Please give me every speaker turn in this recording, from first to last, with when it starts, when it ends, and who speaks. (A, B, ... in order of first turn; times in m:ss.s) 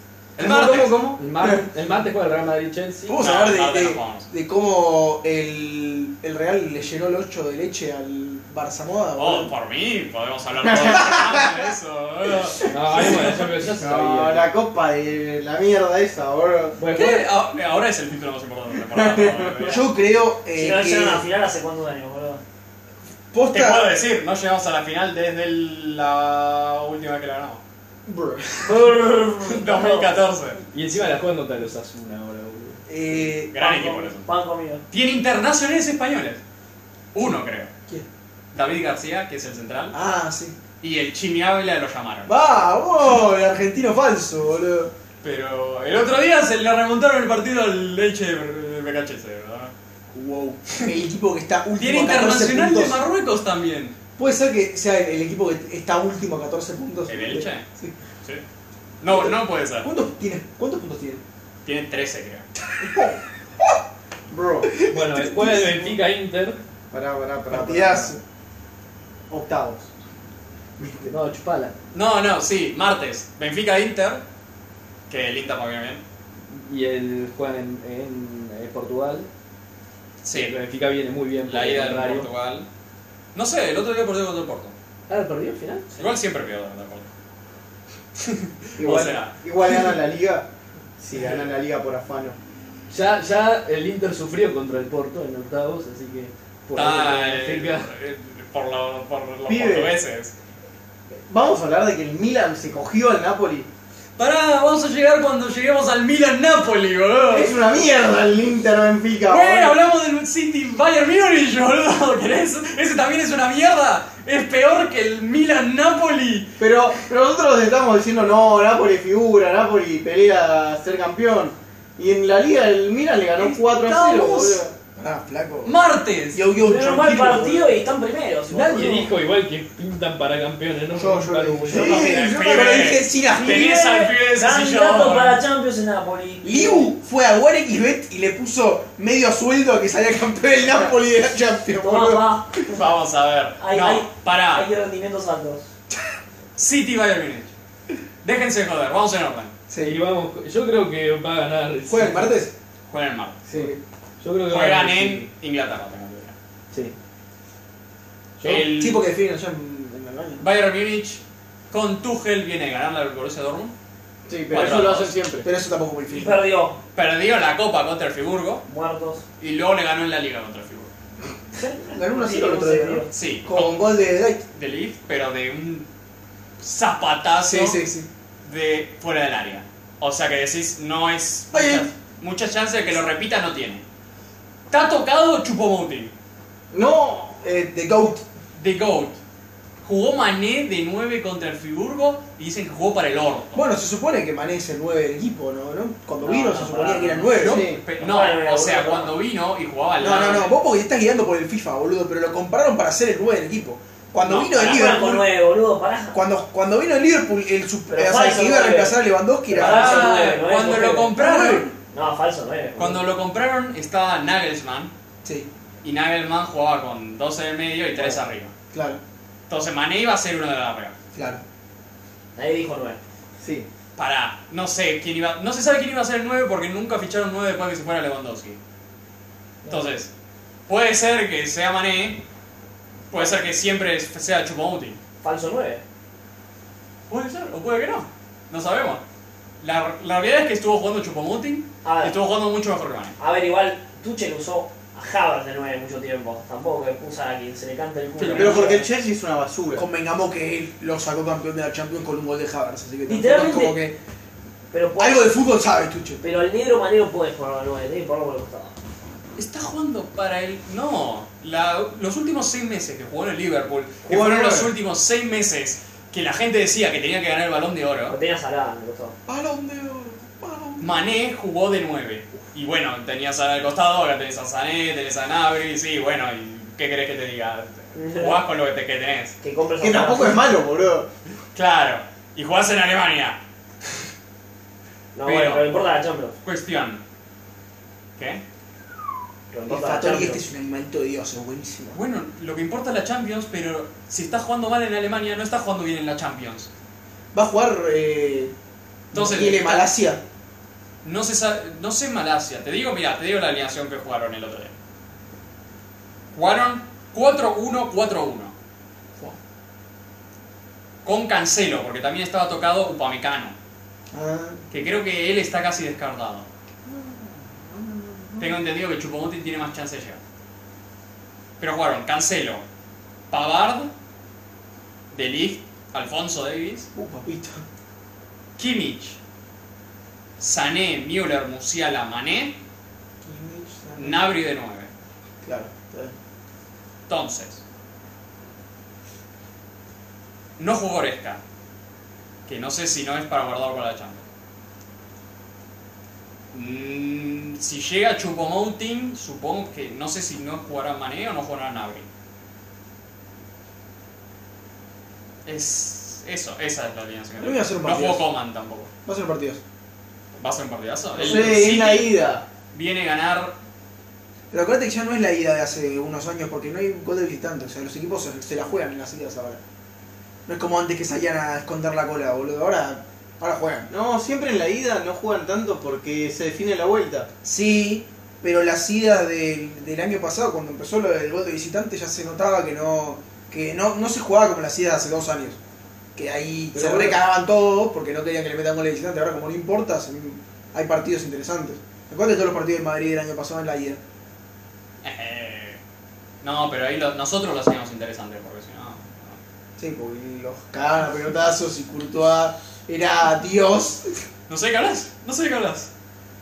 0:00.4-0:01.0 A
0:00.4-0:01.2 B
0:01.2-0:03.2 C
0:03.1-0:09.5 D
0:03.2-0:04.3 A
0:09.2-0:12.7 A
0:10.6-0:11.2 B
0:10.8-0:11.6 D
0:12.7-0:14.5 C
0:12.9-0:16.8 B
0:16.8-0:17.2 C
0:16.9-0:19.8 A
0:18.9-0:19.6 B
0:19.6-0:21.3 D
0:20.5-0:22.4 E
0:23.3-0:23.9 D
0:23.5-0:27.6 A
0:28.1-0:28.7 D
0:28.6-0:30.2 E
0:29.2-0:30.6 A
0:30.7-0:32.8 C
0:32.9-0:33.6 D
0:33.5-0:34.3 A
0:33.6-0:34.8 E
0:34.9-0:36.4 A
0:37.1-0:37.7 A
0:38.5-0:40.0 A
0:39.9-0:40.6 D
0:40.8-0:42.3 A
0:42.2-0:44.9 D
0:45.2-0:49.7 A
0:50.1-0:53.0 D
0:51.8-0:53.9 A
0:54.2-0:57.9 D
0:57.1-0:57.6 A
0:59.0-0:59.9 A
0:59.1-1:01.2 D
1:01.6-1:02.5 A
1:02.9-1:03.2 B
1:02.9-1:03.1 D
1:04.3-1:04.8 B
1:04.7-1:05.8 D
1:04.9-1:06.6 C
1:06.9-1:08.1 B
1:07.5-1:08.2 D
1:09.3-1:09.9 B
1:11.0-1:11.7 C
1:11.9-1:14.2 A
1:15.1-1:16.0 A
1:16.4-1:19.3 C
1:20.2-1:20.5 A
1:20.3-1:22.3 C
1:21.5-1:22.7 A
1:23.3-1:24.7 A
1:25.1-1:25.9 C
1:25.9-1:27.1 A
1:28.2-1:29.8 A
1:28.8-1:30.5 B
1:31.0-1:32.4 B
1:31.1-1:31.4 A
1:32.9-1:37.9 C
1:36.7-1:40.3 A
1:39.5-1:39.9 B
1:41.3-1:43.7 B
1:44.2-1:47.6 A
1:47.3-1:49.8 B
1:49.3-1:56.5 A
1:56.6-2:04.7 B
2:03.4-2:04.6 A
2:05.0-2:05.8 D
2:05.6-2:06.4 A
2:06.3-2:07.8 D
2:06.6-2:08.9 E
2:08.5-2:12.0 C
2:11.0-2:13.7 D
2:11.6-2:12.9 B
2:11.7-2:15.4 A
2:13.3-2:16.9 E
2:16.4-2:22.4 D
2:21.8-2:22.6 E
2:22.6-2:24.7 A
2:23.6-2:25.7 E
2:26.6-2:27.5 A
2:28.2-2:29.5 A
2:29.7-2:30.0 D
2:29.8-2:32.4 C
2:31.9-2:32.5 D
2:32.9-2:33.4 A
2:33.5-2:33.7 B
2:33.5-2:33.8 D
2:34.2-2:35.3 C
2:34.5-2:36.3 A
2:38.4-2:38.7 C
2:38.4-2:39.1 A
2:38.4-2:40.4 D
2:40.4-2:43.7 A
2:44.3-2:45.5 B
2:44.5-2:45.2 A
2:45.4-2:46.4 D
2:46.1-2:46.8 E
2:46.9-2:48.6 A
2:48.7-2:49.2 E
2:49.4-2:50.9 A
2:51.5-2:53.1 E
2:51.9-2:54.4 D
2:53.1-2:53.9 A
2:54.5-2:55.9 A
2:56.6-2:57.8 A
2:57.4-2:58.1 D
2:58.4-3:03.8 A
3:01.5-3:01.8 D
3:04.7-3:06.1 A
3:06.7-3:07.8 B
3:07.7-3:08.2 D
3:08.6-3:09.2 A
3:09.8-3:13.6 A
3:13.5-3:17.6 D
3:16.2-3:17.4 E
3:17.4-3:17.8 B
3:17.4-3:20.6 A
3:18.0-3:19.1 E
3:20.0-3:25.3 D
3:24.2-3:25.0 A
3:24.5-3:26.2 E
3:26.1-3:30.3 D
3:27.9-3:29.0 E
3:29.5-3:31.1 E
3:29.5-3:31.7 A
3:31.2-3:31.7 D
3:31.9-3:33.0 E
3:32.8-3:34.9 A
3:35.2-3:35.5 D
3:35.8-3:38.5 A
3:38.7-3:39.0 D
3:39.5-3:40.9 A
3:41.1-3:41.4 D
3:42.4-3:43.0 E
3:43.4-3:43.7 B
3:44.0-3:48.6 A
3:49.7-3:50.1 A
3:50.7-3:52.2 A
3:53.1-3:55.0 A
3:55.2-3:55.8 E
3:57.1-3:59.0 A
3:59.6-4:03.2 A
4:01.8-4:02.1 E
4:03.2-4:08.9 E
4:08.2-4:08.7 A
4:08.3-4:09.8 B
4:09.7-4:14.0 D
4:13.0-4:13.8 E
4:14.7-4:15.3 E
4:15.0-4:16.2 D
4:16.2-4:18.8 E
4:19.4-4:28.2 A
4:24.1-4:24.7 D
4:28.1-4:29.2 E
4:29.3-4:30.9 D
4:30.8-4:39.4 A
4:37.9-4:38.4 E
4:39.4-4:40.4 E
4:39.8-4:41.1 B
4:41.5-4:43.4 A
4:45.1-4:46.4 E
4:45.2-4:45.6 A
4:46.4-4:47.0 A
4:48.2-4:48.4 A
4:49.5-4:50.4 E
4:49.7-4:52.0 D
4:51.9-4:56.7 A
4:57.3-4:58.5 D
4:59.1-4:59.9 A
4:59.1-5:00.2 D
5:01.0-5:04.7 A
5:06.3-5:08.5 A
5:11.0-5:13.5 A
5:14.1-5:14.6 D
5:14.7-5:16.4 A
5:17.8-5:18.5 D
5:18.4-5:20.2 A
5:21.6-5:22.6 A
5:23.3-5:23.9 A
5:25.1-5:26.9 A
5:26.9-5:27.6 D
5:28.6-5:29.2 A
5:30.4-5:32.6 A
5:33.2-5:34.3 D
5:34.0-5:34.9 A
5:35.4-5:36.1 D
5:37.1-5:37.6 A
5:40.6-5:41.4 A
5:42.5-5:44.2 A
5:46.5-5:52.1 A
5:55.4-5:58.9 A
5:57.4-5:58.3 D
5:59.0-5:59.6 D
6:00.4-6:02.1 A
6:01.1-6:02.4 B
6:01.2-6:01.5 D
6:02.7-6:03.5 A
6:04.5-6:09.6 D
6:10.4-6:13.9 D
6:13.9-6:17.3 B
6:17.4-6:25.6 D
6:26.2-6:34.0 D
6:26.7-6:27.2 B
6:35.0-6:35.8 A
6:36.4-6:39.4 A
6:39.8-6:44.2 D
6:44.5-6:45.9 A